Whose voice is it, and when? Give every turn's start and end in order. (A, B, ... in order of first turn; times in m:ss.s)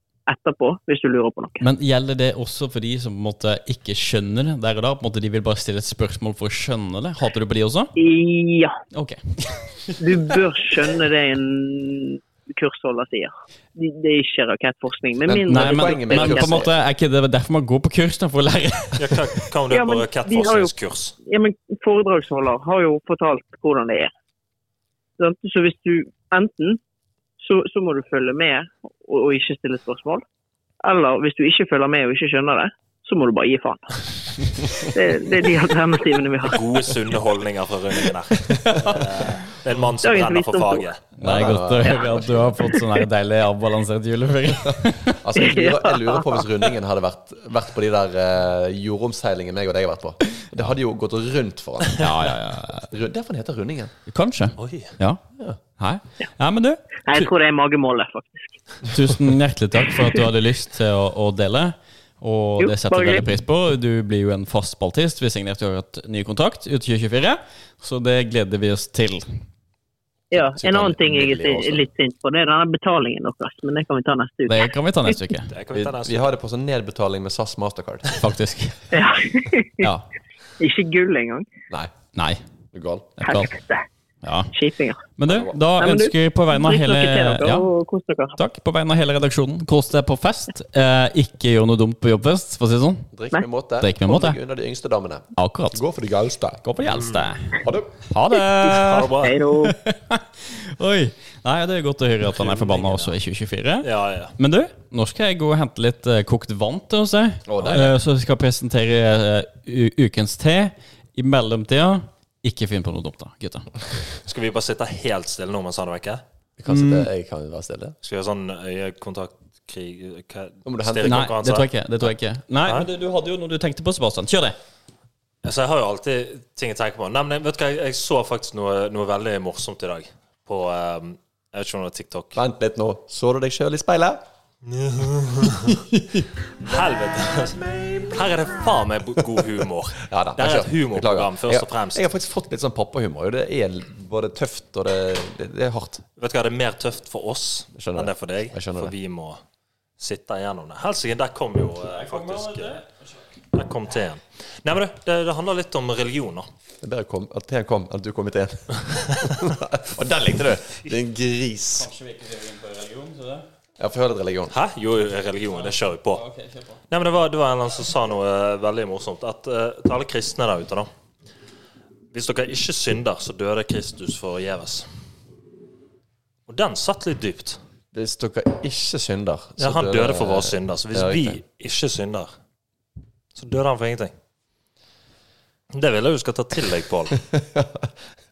0:00.3-0:01.6 A
0:01.6-0:07.9 B
0:08.0-0:08.8 A
0:08.9-0:10.0 B
0:10.0-0:16.6 A
0:15.3-0:16.7 C
0:15.5-0:19.3 B
0:19.0-0:21.2 D
0:19.7-0:20.7 A
0:21.2-0:24.1 A
0:25.2-0:26.8 A
0:27.4-0:30.2 A
0:30.8-0:36.7 A
0:36.4-0:41.0 D
0:38.5-0:38.8 C
0:40.0-0:40.9 A
0:41.2-0:45.2 B
0:41.2-0:42.6 C
0:41.5-0:43.0 A
0:44.7-0:52.3 C
0:45.4-0:46.5 A
0:52.0-0:52.9 B
0:52.9-0:53.9 C
0:54.1-0:55.2 B
0:54.6-0:55.0 D
0:55.8-0:57.3 B
0:57.1-0:58.6 A
0:58.9-1:09.3 B
1:02.6-1:03.2 A
1:10.3-1:15.2 A
1:10.4-1:11.9 C
1:14.5-1:15.5 B
1:15.5-1:16.3 D
1:15.7-1:18.2 C
1:18.2-1:18.8 B
1:18.9-1:19.9 A
1:19.8-1:20.0 B
1:20.6-1:21.5 A
1:22.2-1:22.4 B
1:22.7-1:23.2 C
1:23.2-1:23.5 B
1:23.2-1:23.9 A
1:24.2-1:24.6 B
1:24.5-1:25.0 A
1:25.2-1:27.7 B
1:25.3-1:25.6 C
1:25.8-1:28.4 A
1:28.4-1:33.1 B
1:33.1-1:36.6 C
1:33.8-1:34.4 B
1:35.4-1:35.8 B
1:36.6-1:53.7 B
1:36.9-1:37.4 D
1:37.6-1:38.0 C
1:38.7-1:39.4 D
1:39.2-1:39.8 A
1:42.3-1:43.2 D
1:43.8-1:44.4 D
1:47.5-1:48.0 C
1:54.2-1:56.2 D
1:56.6-1:58.0 C
1:56.7-1:57.1 B
1:58.0-2:01.7 D
2:00.6-2:01.3 C
2:01.0-2:04.6 B
2:05.4-2:12.4 D
2:12.4-2:14.2 C
2:14.6-2:15.8 D
2:15.7-2:16.3 C
2:16.6-2:22.0 D
2:20.0-2:26.0 C
2:26.2-2:29.4 D
2:27.8-2:28.9 C
2:30.0-2:32.8 D
2:31.9-2:33.0 B
2:33.5-2:36.5 D
2:36.8-2:41.9 C
2:39.1-2:39.4 D
2:41.8-2:43.4 B
2:43.8-2:44.5 C
2:44.5-2:46.2 D
2:46.1-2:46.8 B
2:46.9-2:50.9 D
2:52.1-2:54.9 D
2:56.5-2:57.6 D
2:57.9-3:01.4 C
2:59.6-3:02.3 D
3:03.4-3:04.1 D
3:05.7-3:07.2 D
3:07.2-3:07.9 C